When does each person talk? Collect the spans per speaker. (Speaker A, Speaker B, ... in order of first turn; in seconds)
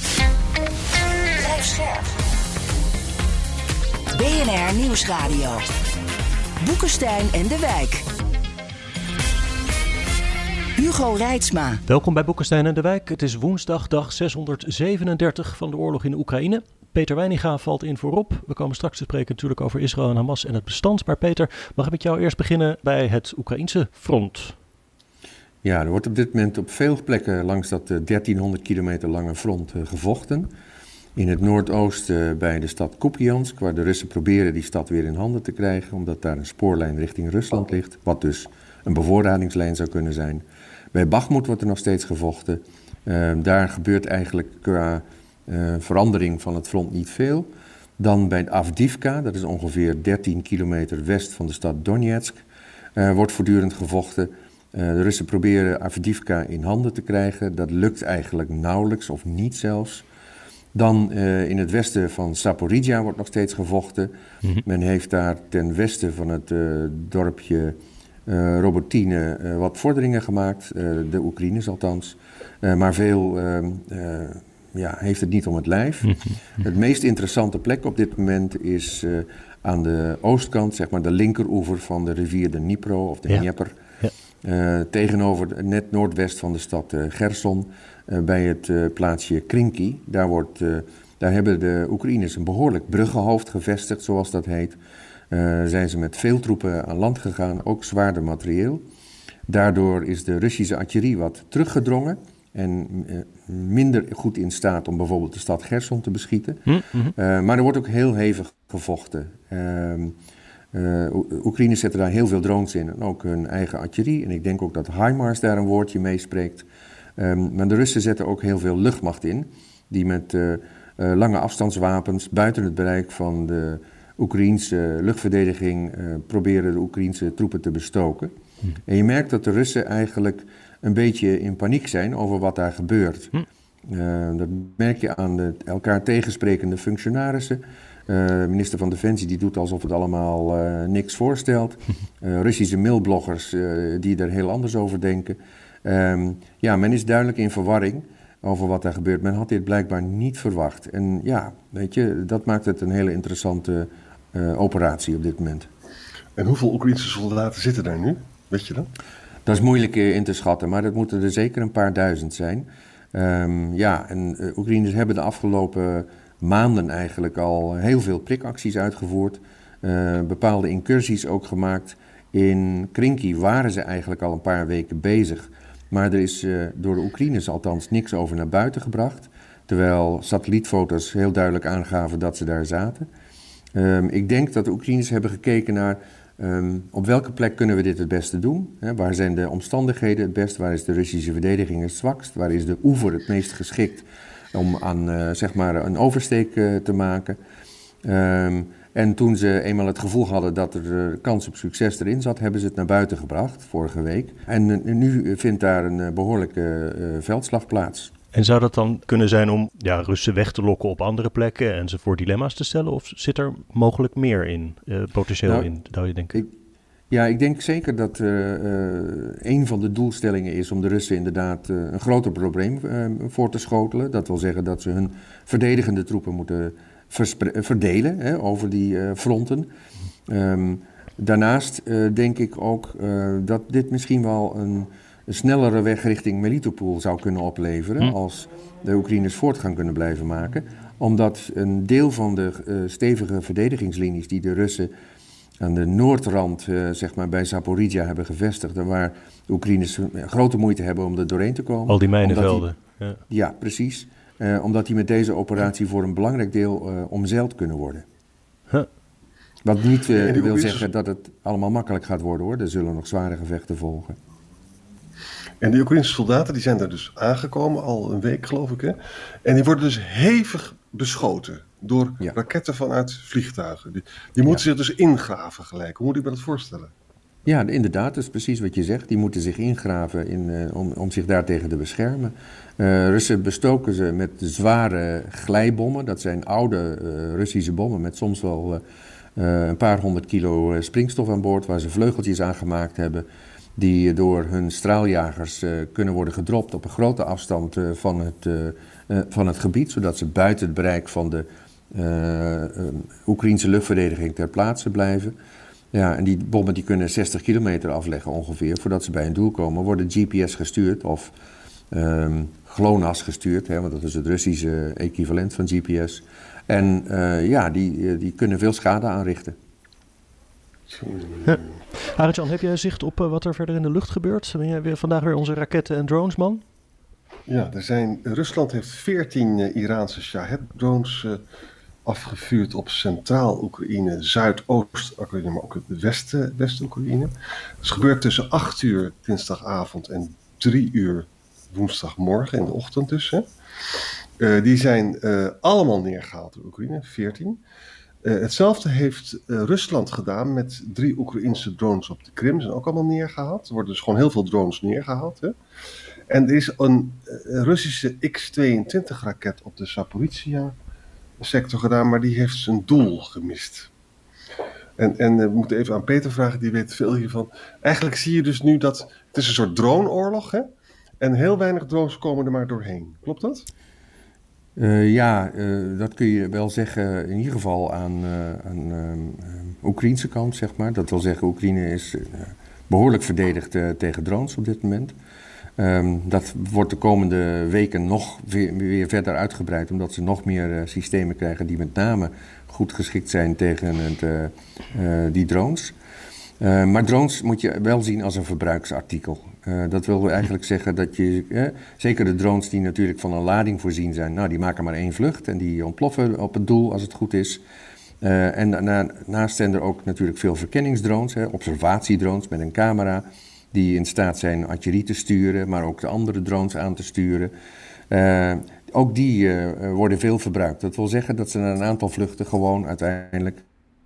Speaker A: 1.3-2.1, 4.1-5.6, 6.6-8.1, 10.8-11.8
Speaker B: 11.9-24.6, 76.1-76.4, 106.7-107.1, 208.3-216.4, 251.9-253.2, 321.5-326.6
Speaker C: 25.6-30.5, 31.1-52.4, 53.0-60.0, 60.7-64.1, 64.6-83.8, 84.4-94.8, 95.3-98.8, 99.5-110.2, 110.7-128.3, 128.9-133.3, 133.9-155.7, 159.4-183.1, 183.7-197.4, 198.0-208.1, 217.1-229.7, 230.3-244.9, 245.6-252.6, 253.3-258.0, 259.6-264.2, 277.4-288.8, 289.4-293.2, 293.8-305.3, 305.9-311.3, 311.9-319.6, 374.8-385.1, 385.8-395.9, 396.6-407.6, 408.2-417.5, 418.1-423.6
Speaker D: 156.3-158.9, 260.1-260.8, 265.6-276.9, 320.9-321.8, 327.5-331.4, 332.0-343.5, 344.4-347.6, 348.2-355.6, 356.3-360.8, 361.4-363.9, 365.0-370.7, 371.2-373.7